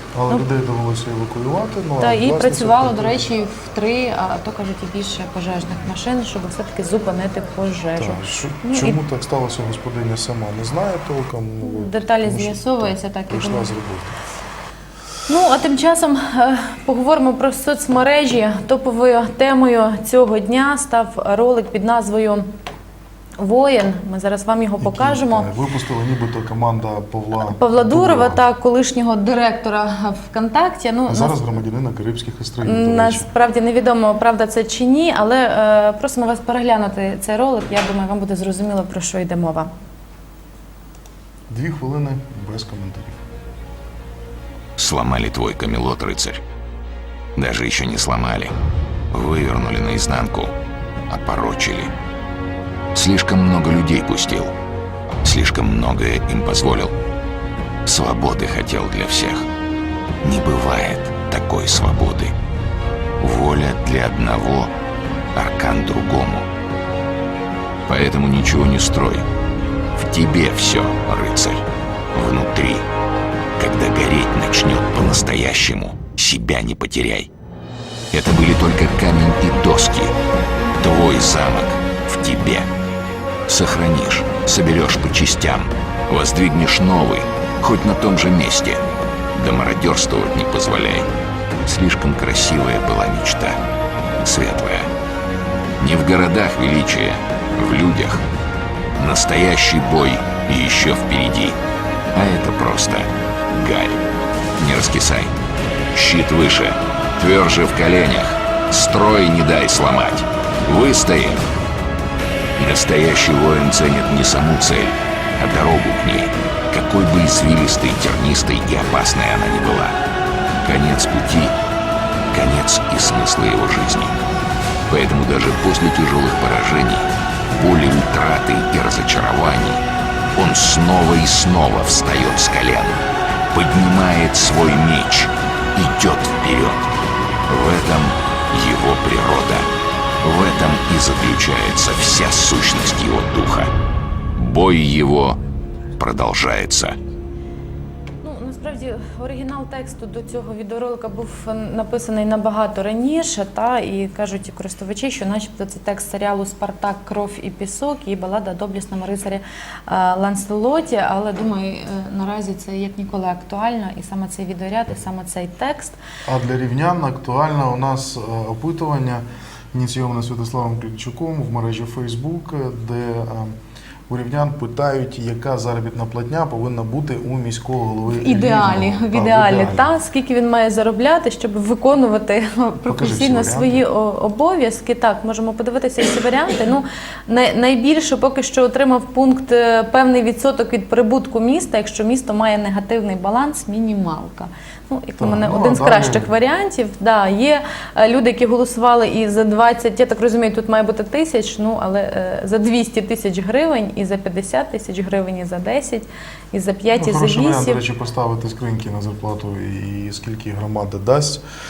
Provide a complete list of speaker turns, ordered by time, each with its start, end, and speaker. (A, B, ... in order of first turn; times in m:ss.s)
0:00.1-0:03.3 A
0:02.0-0:09.0 B
0:08.0-0:14.2 A
0:11.6-0:13.7 B
0:15.3-0:22.5 B
0:23.4-0:25.5 B
0:24.8-0:28.4 A
0:27.4-0:31.4 B
0:31.1-0:33.3 A
0:32.6-0:39.7 B
0:41.5-0:43.2 A
0:44.8-0:46.4 C
0:47.4-0:48.5 C
0:49.1-0:50.5 C
0:51.1-0:51.9 C
0:52.9-0:54.5 C
0:55.2-0:56.9 C
0:57.8-0:59.5 C
1:00.2-1:02.3 C
1:03.2-1:04.7 C
1:05.3-1:06.5 C
1:07.9-1:09.2 C
1:10.0-1:12.8 C
1:13.6-1:17.3 C
1:18.1-1:20.1 C
1:20.8-1:22.7 C
1:23.5-1:28.8 C
1:29.3-1:31.1 C
1:31.6-1:33.6 C
1:34.2-1:34.9 C
1:35.8-1:38.2 C
1:39.0-1:41.6 C
1:42.1-1:44.0 C
1:44.6-1:45.3 C
1:45.9-1:51.4 C
1:52.6-2:00.0 C
2:00.6-2:01.5 C
2:02.3-2:04.2 C
2:04.9-2:09.8 C
2:10.3-2:16.8 C
2:17.5-2:19.7 C
2:20.2-2:23.7 C
2:24.3-2:25.4 C
2:26.0-2:27.0 C
2:28.2-2:46.0 B
2:46.2-2:53.5 A
2:54.1-2:59.9 A
2:58.1-3:27.8 B
3:02.8-3:03.8 A
3:15.2-3:16.3 A
3:26.9-3:31.4 A